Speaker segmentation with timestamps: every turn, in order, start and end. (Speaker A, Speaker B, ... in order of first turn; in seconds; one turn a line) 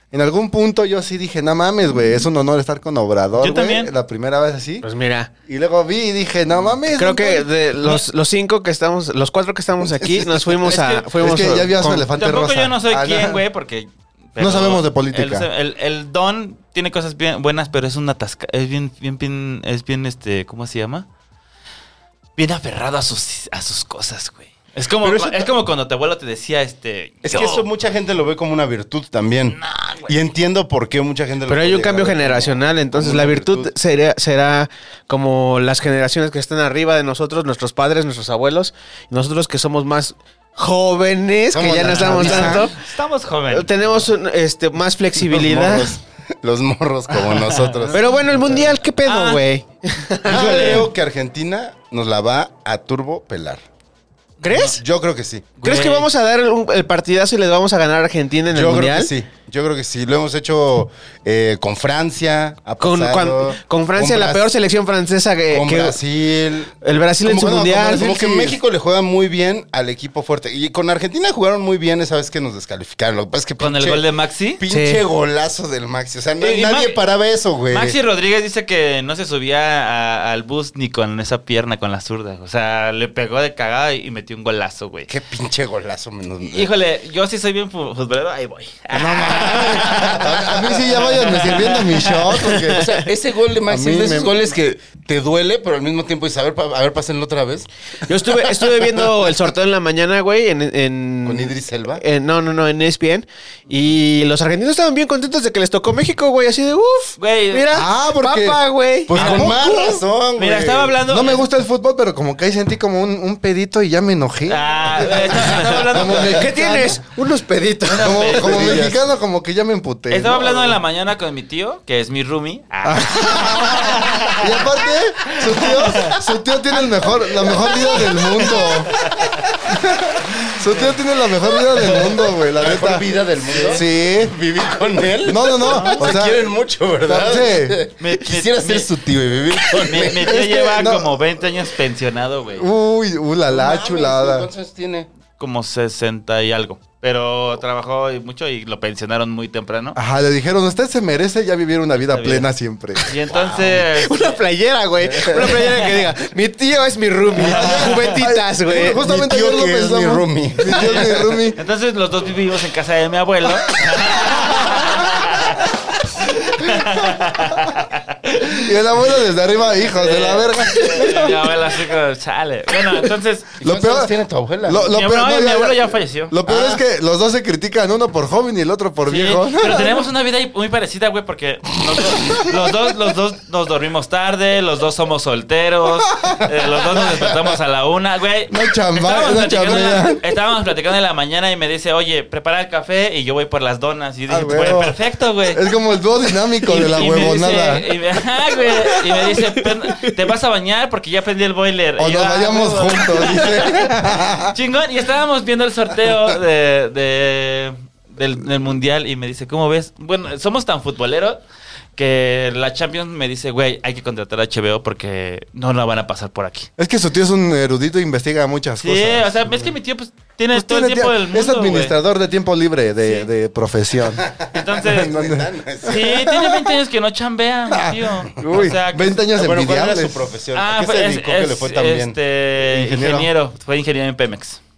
Speaker A: 0.1-4.8
Speaker B: 3.4-3.9
Speaker C: 4.8-5.3
Speaker A: 5.5-7.5
Speaker C: 6.9-12.0
Speaker B: 10.7-11.1
Speaker A: 11.1-13.4
Speaker B: 11.8-21.1
Speaker A: 14.4-15.5
Speaker B: 22.4-27.7
Speaker D: 25.0-25.5
Speaker D: 27.2-33.7
Speaker B: 29.5-30.1
Speaker C: 31.5-42.8
Speaker D: 41.5-42.7
Speaker B: 41.9-44.1
Speaker A: 42.2-42.6
Speaker C: 43.5-46.0
Speaker D: 45.2-48.0
Speaker B: 47.2-48.3
Speaker C: 47.9-50.9
Speaker B: 49.0-49.4
Speaker D: 50.2-53.6
Speaker B: 50.3-50.9
Speaker C: 54.4-54.8
Speaker D: 54.6-55.5
Speaker B: 55.6-56.1
Speaker C: 55.6-59.1
Speaker D: 58.5-64.5
Speaker C: 62.8-66.0
Speaker D: 65.5-66.7
Speaker C: 66.8-68.2
Speaker D: 67.2-74.0
Speaker A: 67.4-68.6
Speaker B: 73.6-74.6
Speaker D: 74.6-78.0
Speaker C: 74.7-75.0
Speaker B: 76.4-77.0
Speaker B: 77.7-85.1
Speaker D: 85.1-86.7
Speaker B: 86.5-92.6
Speaker A: 88.9-92.9
Speaker D: 89.3-91.8
Speaker D: 92.4-97.7
Speaker A: 93.6-94.3
Speaker C: 98.1-109.4
Speaker D: 98.2-99.1
Speaker D: 101.2-102.0
Speaker B: 107.2-107.7
Speaker A: 107.7-108.6
Speaker D: 109.1-111.0
Speaker B: 109.1-109.6
Speaker A: 109.1-110.0
Speaker B: 110.3-111.4
Speaker A: 111.0-117.0
Speaker B: 114.5-116.4
Speaker C: 116.2-118.3
Speaker A: 117.9-120.7
Speaker B: 117.9-118.8
Speaker D: 118.2-119.0
Speaker B: 120.1-124.7
Speaker A: 122.8-128.9
Speaker B: 125.3-126.2
Speaker D: 127.0-129.6
Speaker B: 127.7-129.4
Speaker A: 129.6-133.0
Speaker B: 130.4-130.8
Speaker D: 131.8-140.3
Speaker B: 133.4-133.8
Speaker A: 133.6-134.3
Speaker A: 135.2-136.4
Speaker B: 135.6-136.2
Speaker A: 137.0-137.8
Speaker B: 138.0-138.9
Speaker B: 139.6-142.7
Speaker A: 140.2-141.1
Speaker A: 142.6-144.5
Speaker D: 143.5-145.1
Speaker B: 145.4-150.0
Speaker A: 149.9-153.1
Speaker B: 152.0-152.5
Speaker B: 153.0-154.4
Speaker D: 153.3-153.8
Speaker C: 153.7-159.0
Speaker B: 155.4-155.8
Speaker B: 157.4-158.1
Speaker A: 157.4-161.6
Speaker D: 158.9-161.1
Speaker B: 160.8-165.7
Speaker A: 164.2-165.0
Speaker B: 166.3-168.7
Speaker A: 168.5-171.6
Speaker B: 169.8-173.5
Speaker D: 173.6-174.9
Speaker A: 173.6-180.1
Speaker B: 174.8-176.6
Speaker B: 179.1-195.6
Speaker A: 186.1-186.4
Speaker A: 188.5-190.2
Speaker A: 194.3-195.0
Speaker A: 195.5-197.9
Speaker B: 196.6-211.4
Speaker C: 199.3-200.1
Speaker A: 202.0-204.6
Speaker B: 212.0-216.7
Speaker A: 216.8-219.7
Speaker B: 218.8-221.9
Speaker A: 220.5-226.7
Speaker D: 224.2-226.2
Speaker B: 224.5-225.2
Speaker B: 225.8-229.2
Speaker A: 227.7-230.3
Speaker D: 229.3-232.2
Speaker B: 230.5-234.6
Speaker A: 232.9-233.2